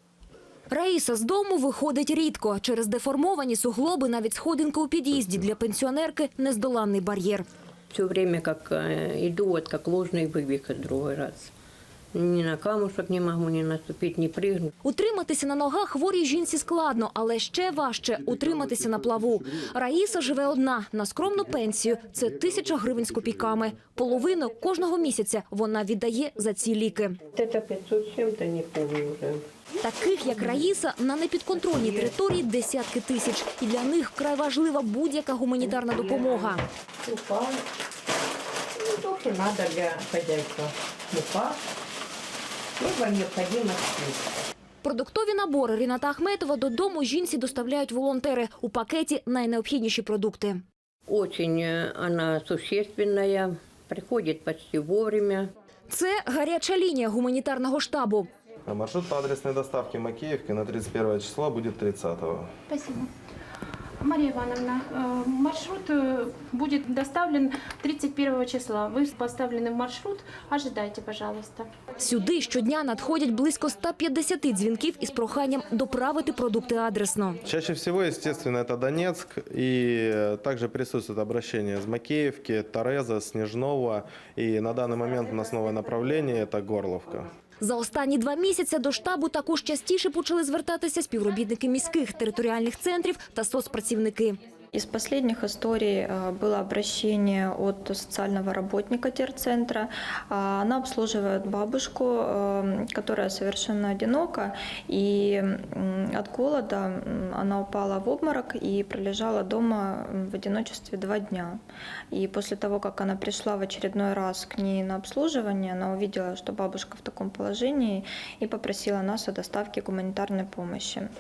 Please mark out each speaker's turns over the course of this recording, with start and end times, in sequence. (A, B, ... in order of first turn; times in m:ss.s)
0:00.7-0:07.4 A
0:07.9-0:11.5 B
0:12.1-0:14.7 B
0:14.8-0:27.2 A
0:27.3-0:29.5 B
0:29.8-0:36.6 A
0:31.7-0:32.1 B
0:35.6-0:37.6 B
0:38.8-0:41.6 B
0:42.8-0:44.2 B
0:44.8-0:50.6 A
0:51.1-0:55.5 B
0:55.9-0:58.3 A
0:58.7-1:02.5 C
1:02.7-1:03.1 D
1:04.0-1:11.7 D
1:12.0-1:17.4 A
1:17.4-1:27.3 C
1:27.6-1:34.4 A
1:34.7-1:51.6 E
1:52.1-2:01.1 E